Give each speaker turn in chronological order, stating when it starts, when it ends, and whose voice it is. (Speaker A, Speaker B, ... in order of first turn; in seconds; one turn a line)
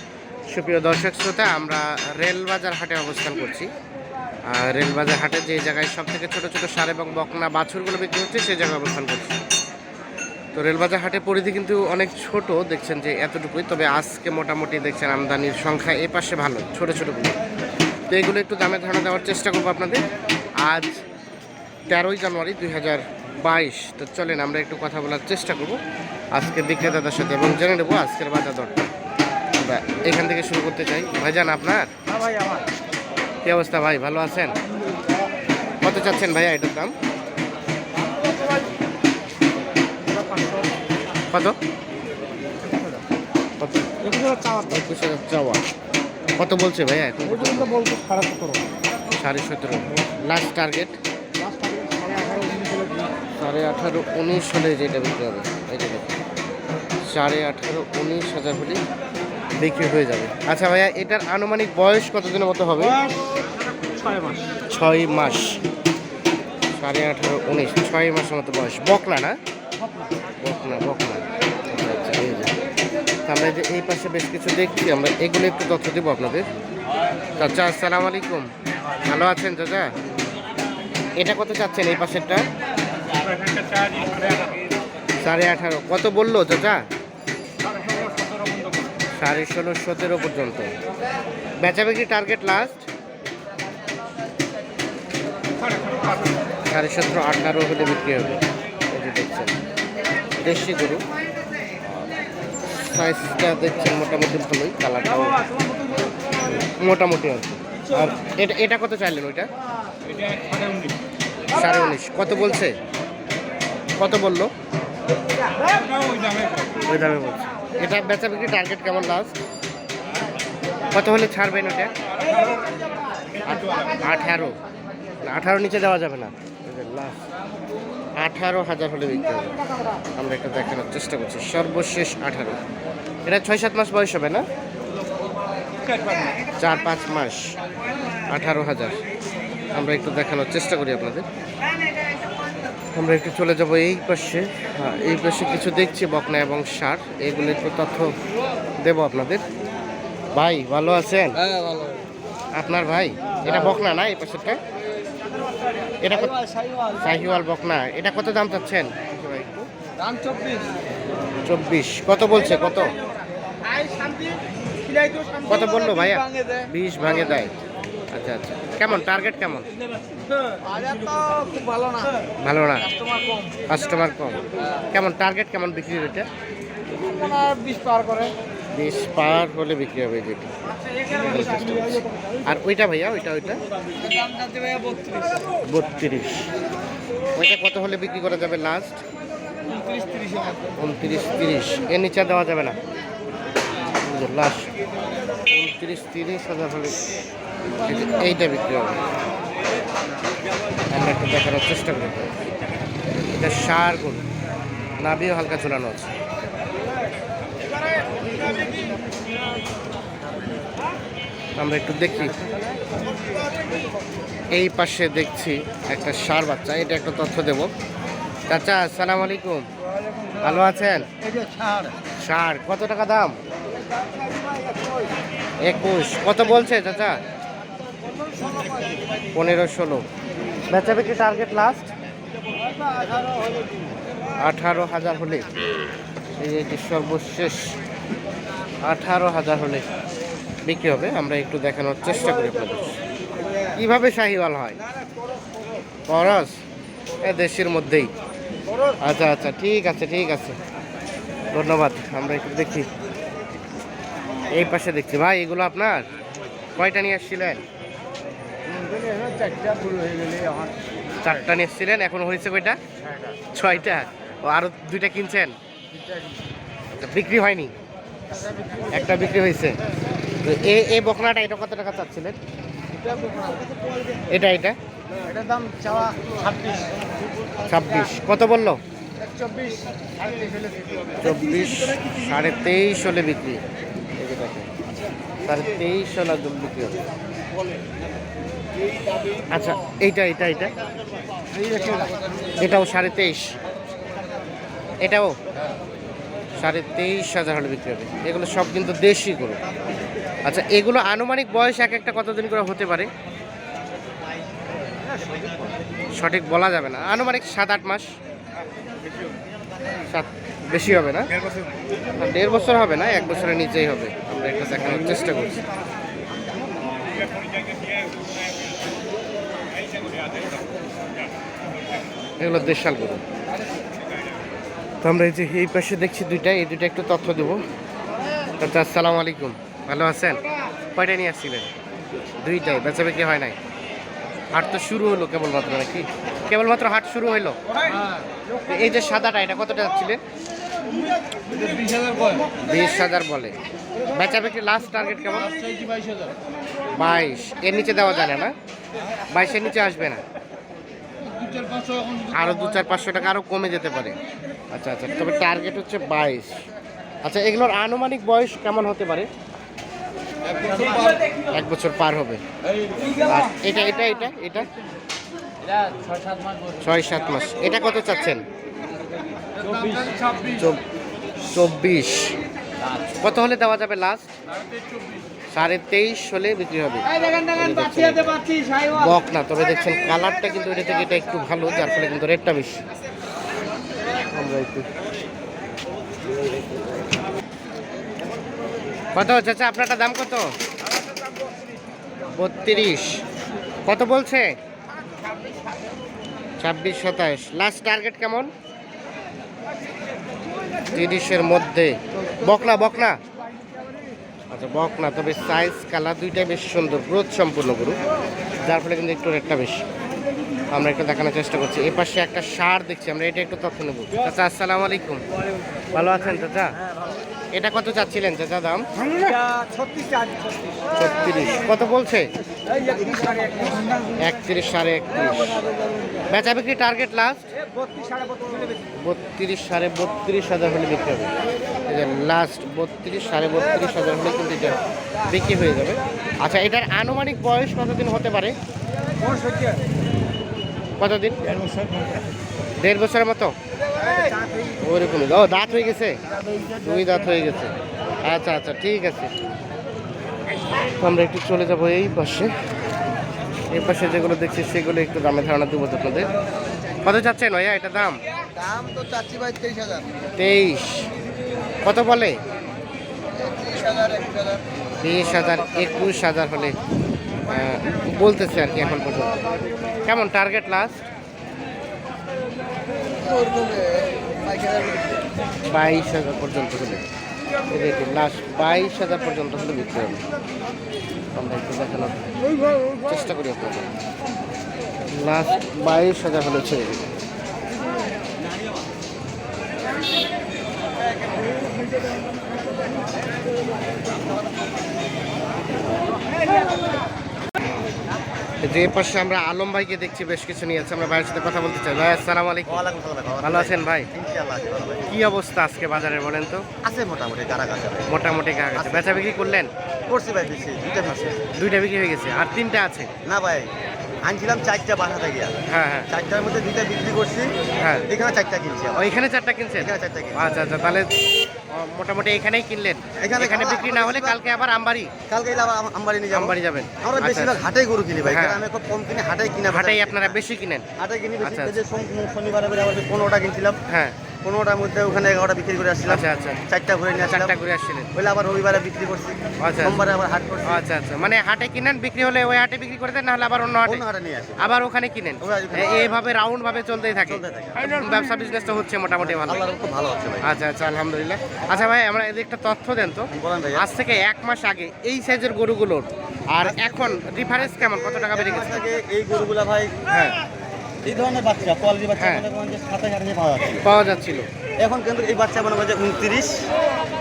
Speaker A: 0.5-3.7
Speaker A: 4.5-9.4
Speaker A: 10.5-17.4
Speaker A: 18.1-20.0
Speaker A: 20.6-21.0
Speaker A: 21.9-25.8
Speaker A: 26.3-28.8
Speaker A: 29.6-31.9
Speaker A: 33.4-34.5
Speaker A: 35.8-36.9
Speaker B: 40.3-40.6
Speaker A: 41.3-41.5
Speaker A: 43.6-44.0
Speaker A: 44.5-45.6
Speaker A: 46.4-47.8
Speaker B: 47.8-48.6
Speaker A: 49.2-51.0
Speaker B: 51.7-53.0
Speaker A: 53.4-56.1
Speaker A: 57.1-58.8
Speaker A: 59.6-63.0
Speaker A: 64.7-65.6
Speaker A: 66.7-69.4
Speaker A: 70.4-72.5
Speaker A: 73.2-76.5
Speaker A: 77.4-78.5
Speaker A: 79.0-79.9
Speaker A: 81.2-82.4
Speaker B: 83.6-84.1
Speaker A: 85.2-86.8
Speaker A: 89.2-90.7
Speaker A: 91.6-92.8
Speaker A: 96.7-99.5
Speaker A: 100.4-101.0
Speaker A: 102.8-105.4
Speaker A: 106.8-109.5
Speaker A: 111.5-112.7
Speaker A: 114.0-114.5
Speaker A: 116.8-119.3
Speaker A: 120.9-121.9
Speaker A: 123.5-124.5
Speaker A: 125.2-127.2
Speaker A: 128.2-129.5
Speaker A: 130.2-132.6
Speaker A: 133.2-134.4
Speaker A: 136.6-137.6
Speaker A: 138.3-139.0
Speaker A: 139.7-141.2
Speaker A: 142.9-148.1
Speaker A: 148.8-149.4
Speaker A: 150.3-151.5
Speaker B: 151.6-151.9
Speaker A: 152.5-154.6
Speaker A: 156.0-156.4
Speaker B: 156.6-156.9
Speaker A: 157.0-159.7
Speaker B: 160.0-160.6
Speaker A: 161.4-163.0
Speaker B: 163.9-164.2
Speaker B: 165.0-165.4
Speaker A: 165.4-167.5
Speaker A: 168.1-169.7
Speaker B: 170.6-172.1
Speaker A: 172.4-172.9
Speaker A: 173.7-174.4
Speaker A: 174.9-176.2
Speaker B: 177.0-178.3
Speaker A: 178.7-180.5
Speaker A: 181.1-183.6
Speaker B: 184.2-185.4
Speaker A: 185.7-186.5
Speaker A: 187.3-189.0
Speaker B: 189.9-190.4
Speaker A: 190.8-192.8
Speaker A: 194.0-194.7
Speaker A: 195.5-197.1
Speaker A: 197.8-199.0
Speaker A: 200.9-202.5
Speaker A: 203.3-204.2
Speaker A: 205.0-206.1
Speaker A: 211.6-212.3
Speaker A: 214.5-217.7
Speaker A: 218.5-219.7
Speaker A: 220.4-221.1
Speaker C: 221.2-221.9
Speaker A: 222.2-223.3
Speaker A: 225.6-227.2
Speaker A: 229.3-230.0
Speaker A: 230.7-231.9
Speaker A: 234.4-235.5
Speaker A: 236.4-237.7
Speaker A: 238.8-239.8
Speaker A: 240.6-242.9
Speaker A: 243.8-244.8
Speaker A: 246.1-246.5
Speaker A: 247.2-248.1
Speaker A: 249.0-250.6
Speaker A: 251.5-252.9
Speaker A: 254.5-256.1
Speaker A: 256.8-257.6
Speaker B: 258.7-260.7
Speaker A: 261.2-262.8
Speaker A: 263.5-265.5
Speaker A: 267.0-267.7
Speaker A: 268.9-269.7
Speaker A: 270.4-272.4
Speaker B: 273.2-273.5
Speaker A: 274.3-274.8
Speaker B: 275.3-276.9
Speaker A: 277.6-278.8
Speaker B: 279.3-281.2
Speaker A: 281.2-283.6
Speaker A: 284.2-284.7
Speaker A: 285.4-287.0
Speaker A: 289.5-290.7
Speaker B: 291.6-292.1
Speaker A: 292.6-293.5
Speaker A: 295.0-295.3
Speaker A: 296.6-299.6
Speaker A: 300.4-303.1
Speaker A: 306.1-308.1
Speaker A: 310.1-311.3
Speaker A: 312.2-315.6
Speaker A: 322.4-323.2
Speaker A: 325.0-327.6
Speaker A: 328.6-331.7
Speaker A: 332.4-333.6
Speaker A: 334.5-337.6
Speaker A: 338.6-340.2
Speaker B: 341.8-342.4
Speaker A: 342.6-343.6
Speaker A: 344.1-345.6
Speaker A: 346.9-348.5
Speaker A: 349.3-350.2
Speaker B: 351.8-352.1
Speaker A: 352.2-354.1
Speaker A: 354.7-356.6
Speaker A: 357.2-359.3
Speaker B: 360.7-361.0
Speaker A: 361.5-362.4
Speaker A: 363.1-364.7
Speaker A: 366.8-368.4
Speaker B: 369.6-370.2
Speaker A: 370.4-370.8
Speaker A: 371.5-372.4
Speaker A: 373.2-374.3
Speaker A: 375.5-382.8
Speaker A: 384.3-384.9
Speaker A: 389.1-390.5
Speaker A: 392.4-393.2
Speaker A: 393.9-394.5
Speaker A: 396.6-398.5
Speaker A: 400.9-403.1
Speaker A: 404.5-407.9
Speaker A: 408.6-409.8
Speaker A: 410.7-415.2
Speaker A: 415.9-416.8
Speaker A: 417.5-418.9
Speaker B: 419.1-420.8
Speaker A: 420.9-422.3
Speaker B: 423.3-423.8
Speaker A: 424.2-425.6
Speaker A: 426.3-427.5
Speaker B: 428.0-428.6
Speaker A: 429.0-431.3
Speaker A: 431.9-438.5
Speaker B: 439.4-439.7
Speaker A: 441.0-441.4
Speaker A: 442.8-443.5
Speaker A: 444.7-446.2
Speaker A: 446.8-449.3
Speaker A: 451.0-452.5
Speaker A: 453.7-456.3
Speaker A: 457.0-458.2
Speaker C: 458.6-459.9
Speaker B: 458.7-460.0
Speaker A: 460.4-461.1
Speaker A: 461.8-462.4
Speaker B: 463.7-464.6
Speaker A: 465.0-466.8
Speaker A: 467.5-469.4
Speaker A: 470.0-471.0
Speaker B: 473.2-475.1
Speaker A: 475.6-477.0
Speaker A: 477.7-480.2
Speaker A: 481.3-482.4
Speaker A: 483.0-483.9
Speaker A: 485.1-487.1
Speaker A: 498.6-502.8
Speaker C: 502.7-505.1
Speaker A: 503.4-504.1
Speaker A: 505.1-506.6
Speaker C: 506.8-508.1
Speaker A: 508.1-509.7
Speaker C: 508.7-509.2
Speaker C: 510.1-511.3
Speaker A: 511.1-513.1
Speaker C: 513.2-513.7
Speaker C: 514.2-515.6
Speaker A: 515.7-516.1
Speaker C: 516.1-519.1
Speaker A: 517.8-518.1
Speaker A: 519.0-521.1
Speaker C: 519.8-520.5
Speaker A: 521.7-525.1
Speaker C: 523.2-524.4
Speaker C: 525.3-530.4
Speaker A: 526.3-527.6
Speaker A: 528.2-528.6
Speaker A: 529.7-530.9
Speaker C: 531.0-533.8
Speaker A: 531.4-531.8
Speaker A: 533.9-534.2
Speaker C: 534.4-537.6
Speaker A: 536.1-536.6
Speaker A: 537.2-538.1
Speaker C: 538.1-540.8
Speaker A: 539.6-540.0
Speaker A: 540.6-544.0
Speaker C: 543.8-544.7
Speaker A: 544.6-549.7
Speaker C: 545.4-546.2
Speaker C: 547.2-548.0
Speaker C: 549.2-550.5
Speaker A: 550.4-558.8
Speaker C: 553.4-553.9
Speaker C: 556.6-559.9
Speaker A: 560.1-560.4
Speaker C: 561.0-563.9
Speaker A: 562.1-562.4
Speaker A: 563.8-564.5
Speaker C: 564.8-566.6